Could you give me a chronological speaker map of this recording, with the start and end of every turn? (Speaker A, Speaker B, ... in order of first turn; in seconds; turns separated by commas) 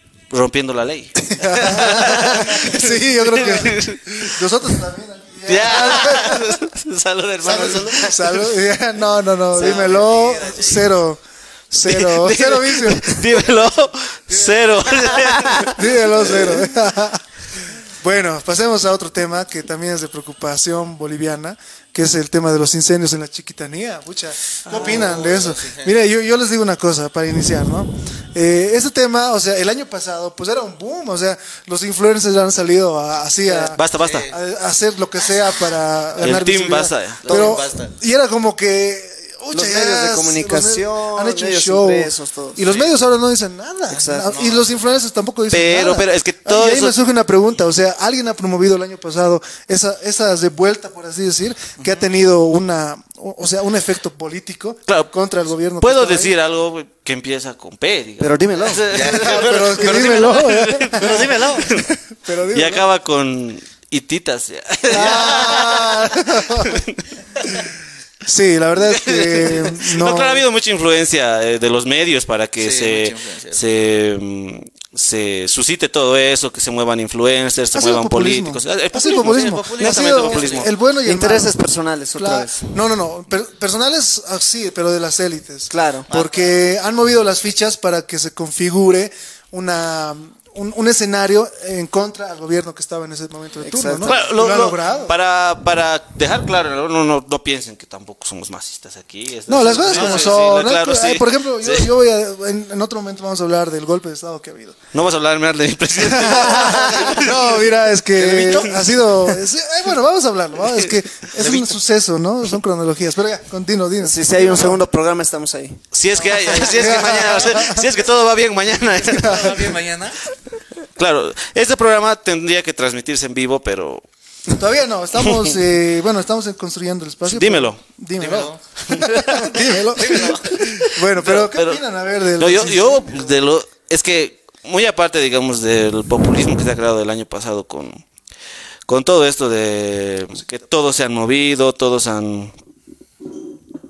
Speaker A: 0.3-4.4, Speaker B: 1.2-6.6, Speaker A: 5.5-8.5, Speaker B: 7.4-13.4, Speaker C: 7.4-8.1, Speaker D: 9.5-10.4, Speaker C: 9.5-10.9, Speaker A: 11.8-16.6, Speaker B: 14.3-14.9, Speaker B: 15.5-56.3, Speaker C: 24.7-25.9, Speaker D: 33.4-33.7, Speaker A: 33.7-34.3, Speaker C: 33.9-34.4, Speaker A: 36.2-37.5, Speaker C: 37.2-37.9, Speaker D: 39.5-42.6, Speaker C: 42.7-43.0, Speaker D: 43.9-44.4, Speaker C: 44.1-45.0, Speaker A: 45.5-47.0, Speaker A: 55.8-61.9, Speaker D: 58.2-58.9, Speaker C: 58.9-61.8, Speaker B: 59.0-62.9, Speaker A: 62.5-67.0, Speaker B: 64.9-66.8, Speaker C: 64.9-66.1, Speaker B: 68.2-70.4, Speaker A: 68.8-80.7, Speaker C: 72.6-73.6, Speaker B: 77.7-81.6, Speaker C: 79.1-80.7, Speaker D: 81.0-82.7, Speaker B: 82.2-95.1, Speaker D: 85.7-86.1, Speaker C: 86.1-86.5, Speaker D: 93.6-94.3, Speaker A: 94.0-101.9, Speaker B: 99.5-104.8, Speaker C: 99.9-100.6, Speaker A: 104.9-107.7, Speaker B: 106.0-114.8, Speaker C: 108.2-108.9, Speaker A: 108.3-108.7, Speaker D: 114.0-117.4, Speaker A: 115.9-119.6, Speaker C: 116.1-116.7, Speaker B: 116.6-117.9, Speaker C: 118.9-120.2, Speaker B: 119.1-119.7, Speaker A: 121.0-124.0, Speaker B: 124.5-133.4, Speaker A: 125.2-125.5, Speaker A: 127.2-127.8, Speaker C: 128.2-128.6, Speaker A: 128.9-131.8, Speaker C: 129.9-130.5, Speaker A: 132.4-138.0, Speaker A: 138.9-142.5